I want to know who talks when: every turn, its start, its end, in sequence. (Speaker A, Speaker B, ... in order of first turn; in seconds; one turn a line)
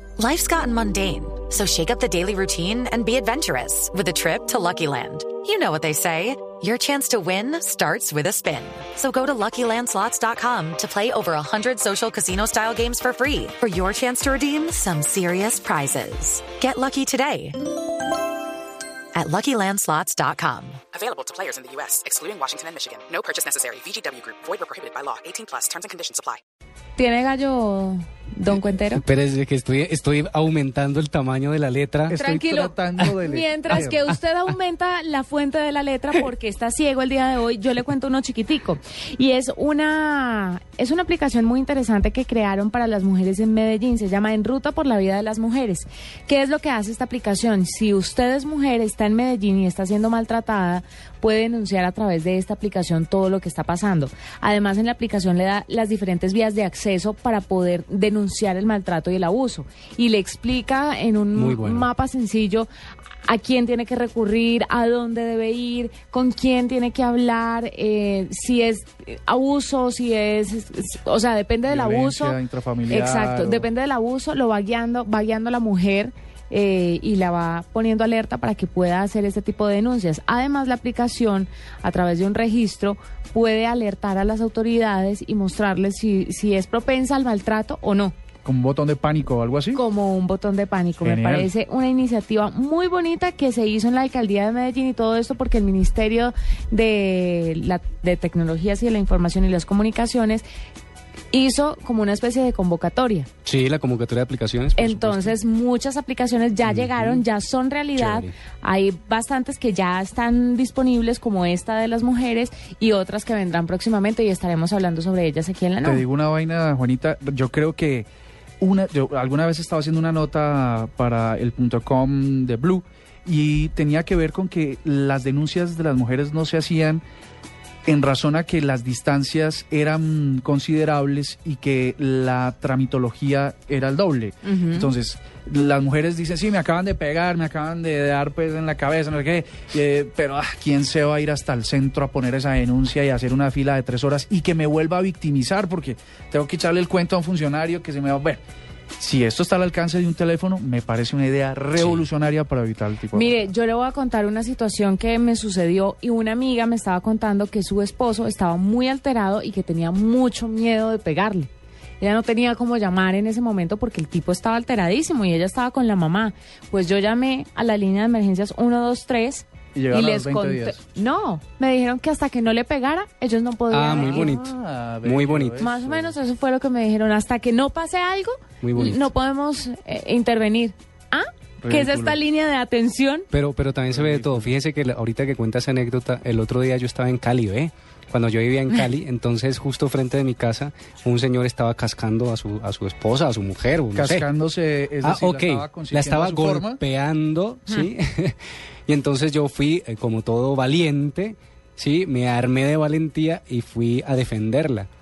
Speaker A: 0.2-17.6
Speaker A: 19.1-20.8
Speaker B: 20.9-26.4
Speaker C: 26.9-29.0
Speaker D: 28.9-32.2
Speaker E: 32.1-34.1
Speaker C: 32.1-62.7
Speaker D: 33.7-34.1
Speaker D: 61.3-61.9
Speaker C: 63.2-88.1
Speaker E: 71.7-73.7
Speaker E: 88.4-89.8
Speaker C: 89.7-100.4
Speaker E: 91.0-91.5
Speaker C: 101.3-103.3
Speaker D: 103.4-105.3
Speaker C: 104.8-116.0
Speaker D: 106.7-107.1
Speaker D: 108.0-108.3
Speaker E: 115.8-118.1
Speaker E: 118.6-127.0
Speaker E: 127.9-148.4
Speaker C: 134.4-134.9
Speaker E: 149.0-153.5
Speaker D: 151.8-152.0
Speaker C: 153.1-174.4
Speaker E: 169.7-170.8
Speaker D: 173.7-174.5
Speaker E: 173.9-176.1
Speaker D: 175.0-175.6
Speaker C: 175.6-183.3
Speaker D: 178.6-179.1
Speaker E: 181.6-182.2
Speaker D: 183.3-194.2
Speaker E: 183.9-184.5
Speaker E: 193.9-196.8
Speaker D: 195.0-204.9